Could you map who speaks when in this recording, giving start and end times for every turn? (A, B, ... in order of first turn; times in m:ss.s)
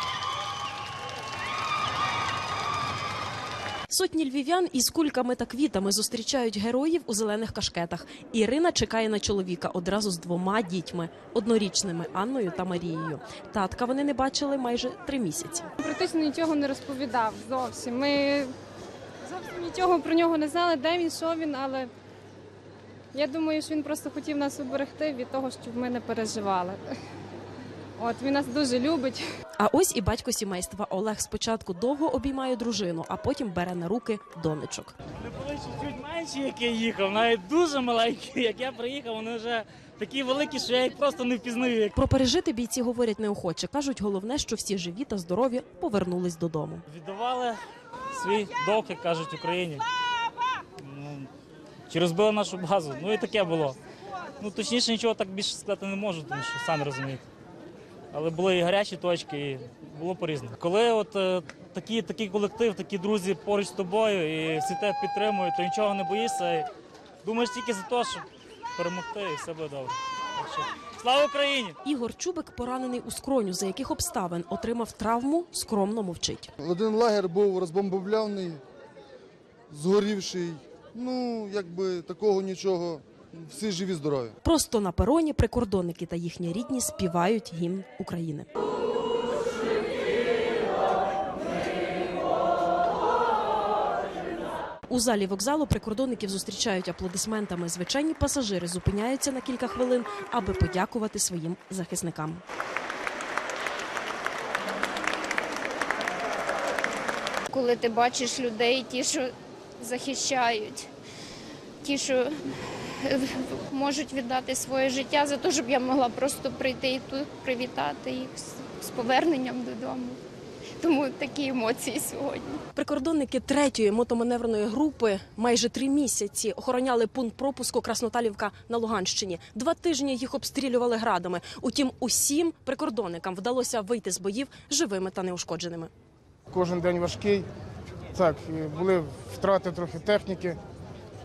0:03.9-0:15.7 A
0:15.8-0:18.5 B
0:19.3-0:21.9 B
0:23.1-0:26.8 B
0:28.0-0:29.2 B
0:29.6-0:35.0 A
0:35.2-0:41.9 C
0:42.0-0:46.8 A
0:46.9-0:47.6 C
0:48.1-0:49.8 C
0:50.8-0:51.3 C
0:51.9-0:53.8 C
0:54.4-0:57.3 C
0:58.1-1:06.7 C
1:07.2-1:11.8 C
1:11.8-1:16.5 A
1:16.6-1:18.6 D
1:19.7-1:24.3 D
1:24.4-1:28.5 A
1:34.9-1:42.4 A
1:47.5-1:50.9 E
1:51.8-2:00.2 E
2:00.8-2:02.6 E
2:02.8-2:15.9 A
2:16.5-2:17.5 F
2:18.1-2:20.6 F